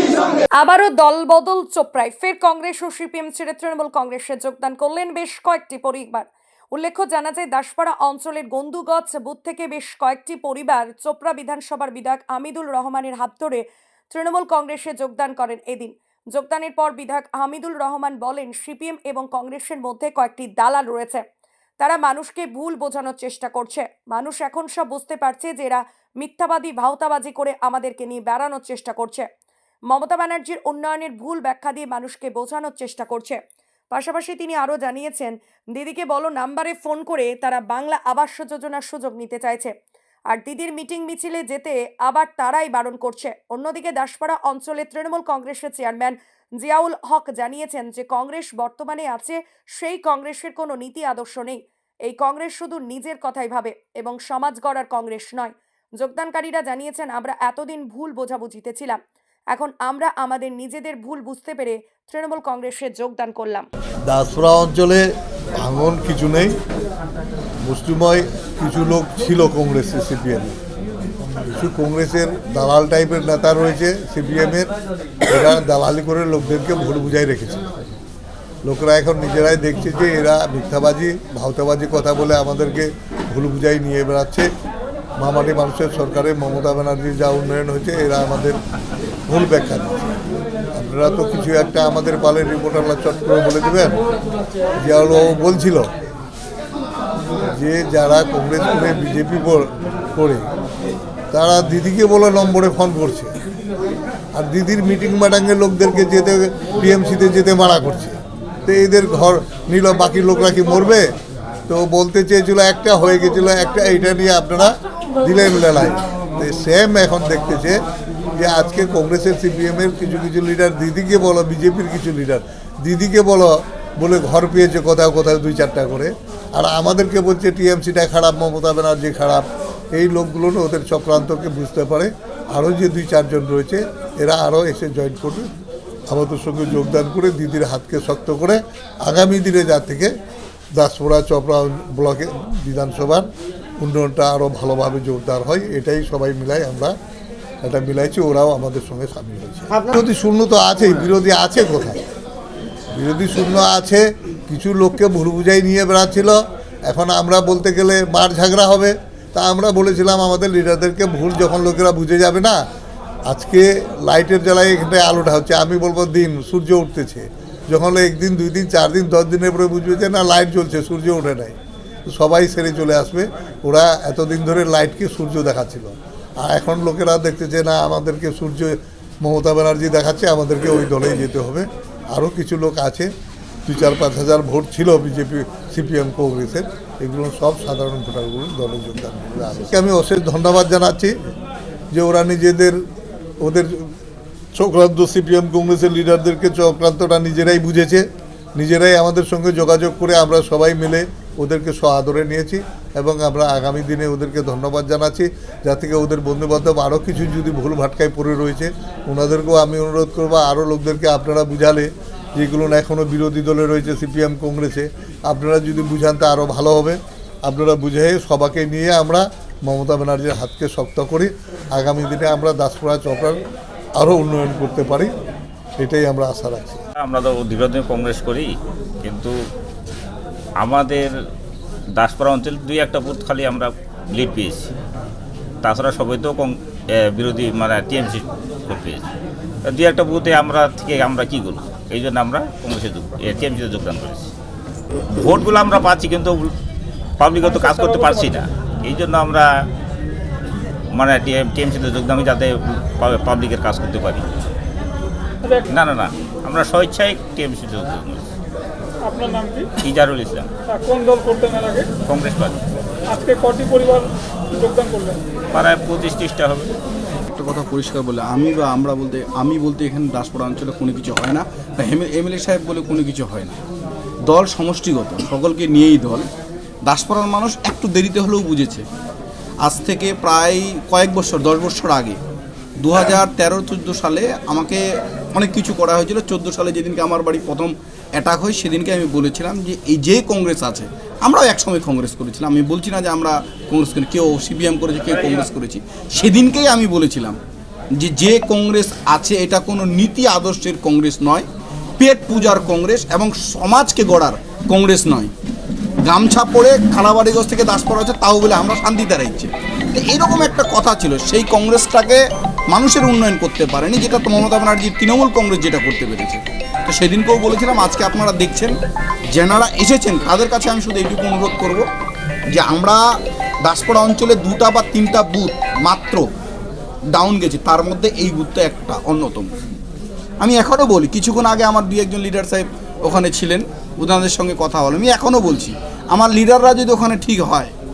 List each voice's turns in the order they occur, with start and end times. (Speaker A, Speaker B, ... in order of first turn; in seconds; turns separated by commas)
Speaker A: 0.6-21.2, Speaker A: 21.8-29.3, Speaker A: 29.9-33.4, Speaker A: 33.9-39.7, Speaker A: 40.3-59.0, Speaker A: 59.5-63.7, Speaker B: 64.1-65.0, Speaker B: 65.6-66.6, Speaker B: 67.6-70.6, Speaker B: 71.5-74.7, Speaker B: 75.3-77.7, Speaker B: 78.7-84.5, Speaker B: 85.2-88.6, Speaker B: 89.3-90.1, Speaker B: 90.7-94.0, Speaker B: 94.8-95.9, Speaker B: 97.5-100.5, Speaker B: 101.3-103.3, Speaker B: 104.3-111.1, Speaker B: 111.7-117.8, Speaker B: 118.3-135.5, Speaker B: 136.1-140.1, Speaker B: 140.7-143.3, Speaker B: 143.8-146.9, Speaker B: 147.6-152.0, Speaker B: 152.9-162.7, Speaker B: 163.3-171.6, Speaker B: 172.1-183.1, Speaker B: 183.7-191.1, Speaker B: 191.9-192.8, Speaker B: 193.4-193.9, Speaker B: 194.6-223.4, Speaker B: 224.0-225.1, Speaker B: 225.8-226.8, Speaker C: 227.0-228.5, Speaker C: 229.0-229.3, Speaker C: 230.6-231.1, Speaker C: 232.0-234.7, Speaker C: 235.6-236.5, Speaker C: 237.1-239.0, Speaker C: 239.7-244.3, Speaker C: 245.2-246.5, Speaker C: 247.2-249.5, Speaker D: 247.4-248.4, Speaker C: 250.9-254.3, Speaker D: 255.4-255.7, Speaker C: 255.7-258.2, Speaker D: 259.1-259.7, Speaker C: 259.8-260.5, Speaker D: 260.7-261.9, Speaker C: 262.1-262.6, Speaker D: 263.1-265.2, Speaker C: 265.5-266.7, Speaker E: 267.3-273.6, Speaker E: 274.3-276.3, Speaker E: 276.9-278.9, Speaker E: 279.6-282.2, Speaker E: 282.8-284.8, Speaker E: 285.3-297.4, Speaker C: 295.1-295.5, Speaker E: 298.0-301.4, Speaker E: 302.0-305.3, Speaker E: 306.1-318.7, Speaker E: 319.3-321.9, Speaker E: 322.5-323.0, Speaker E: 323.6-326.2, Speaker E: 327.1-329.5, Speaker E: 330.4-337.7